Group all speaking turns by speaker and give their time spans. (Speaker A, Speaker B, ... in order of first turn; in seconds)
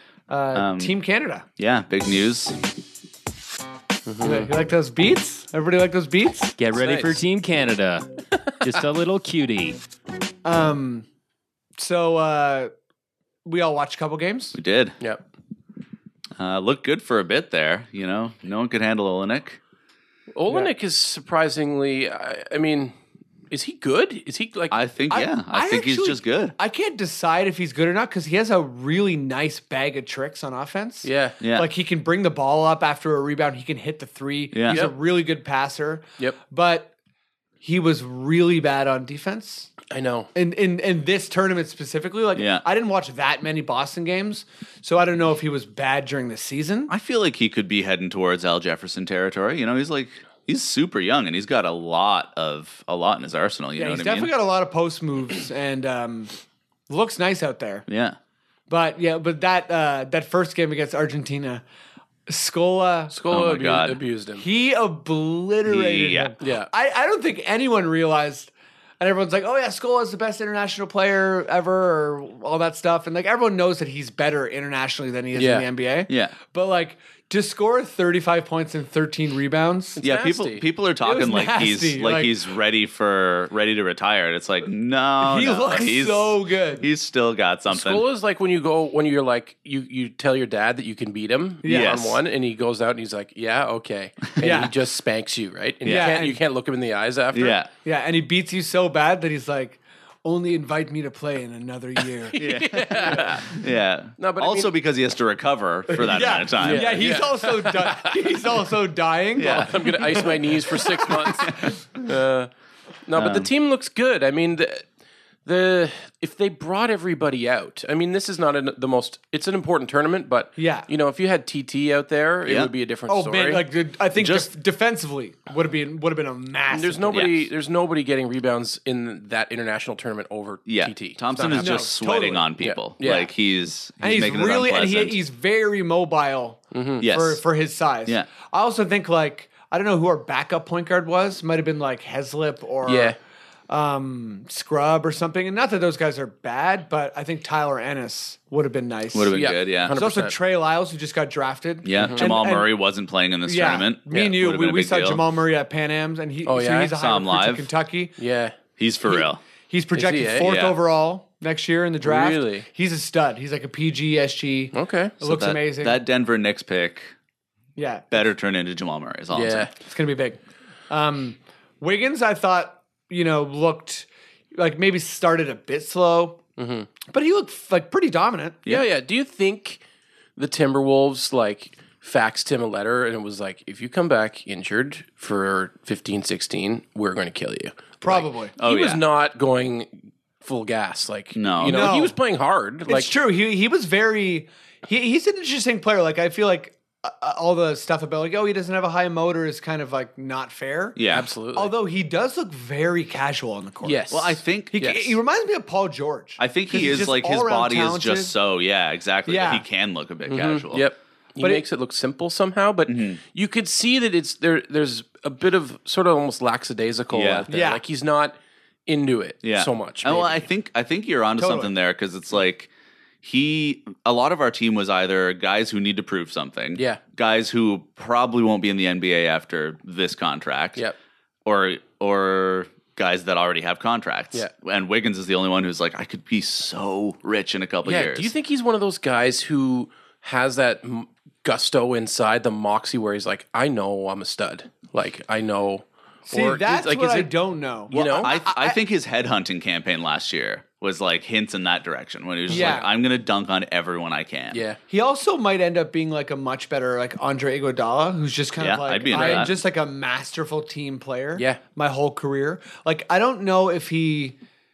Speaker A: 0.3-1.4, 4.2-6.5, 10.4-11.1, 11.8-12.7, 13.4-14.6, 25.1-36.9, 37.6-39.7, 40.3-46.9, 53.8-56.3, 56.9-57.8, 58.7-61.6, 62.3-63.1, 64.4-80.0, 81.0-82.3, 85.2-86.9, 91.6-92.0, 94.4-94.7, 95.8-96.4, 97.8-103.4, 105.9-112.0, 120.6-120.9, 123.1-127.2, 131.4-132.5, 134.0-143.2, 143.7-149.4, 149.9-152.7, 153.4-158.2, 159.1-166.0, 167.8-168.3, 169.8-170.4, 170.9-176.4, 177.1-178.6, 188.0-188.5, 191.6-192.2, 192.8-201.0, 201.5-208.3, 209.3-209.6, 211.4-211.6, 217.5-217.8, 221.4-221.7, 246.3-248.8, 252.5-252.9, 254.9-264.4
Speaker B: 0.5-0.9, 1.6-2.6, 14.5-14.9, 16.4-19.6, 24.7-26.5, 31.4-31.7, 34.5-34.8, 42.4-42.6, 46.9-54.3, 57.9-58.2, 63.3-64.0, 65.6-66.3, 76.1-76.3, 80.0-88.0, 91.7-92.2, 95.8-96.2, 97.3-97.7, 102.4-107.2, 109.4-109.9, 113.1-113.5, 122.5-122.7, 124.1-124.5, 127.1-127.3, 130.7-135.2, 137.0-137.4, 149.1-150.0, 151.8-155.2, 157.0-157.7, 158.8-159.4, 160.4-160.8, 165.2-167.1, 168.1-169.7, 188.6-189.0, 191.3-191.9, 200.9-201.3, 204.1-205.0, 206.4-210.9, 212.9-213.2, 217.1-217.5, 219.4-222.7, 223.2-230.8, 231.4-238.3, 248.2-254.6, 258.6-259.5
Speaker C: 4.1-4.5, 6.7-7.2, 8.4-8.8, 20.3-23.0, 23.5-24.8, 31.0-31.4, 39.9-40.3, 63.1-64.4, 66.4-66.7, 75.3-75.7, 80.0-80.7, 87.7-97.6, 102.1-103.6, 104.2-104.7, 106.5-108.6, 109.4-112.5, 113.0-114.8, 115.4-123.7, 126.7-131.9, 132.6-133.3, 136.7-137.1, 142.8-143.2, 149.3-150.4, 152.0-152.3, 156.4-157.0, 158.2-158.6, 159.9-160.6, 162.0-162.7, 164.7-165.1, 169.3-169.7, 176.6-176.9, 178.7-179.8, 180.4-193.1, 201.1-201.7, 203.8-205.0, 210.3-220.4, 226.8-227.0, 237.8-247.3, 247.9-248.3, 252.5-252.8, 254.5-254.8, 259.1-259.5, 261.4-261.6
Speaker D: 6.6-8.1, 8.6-9.8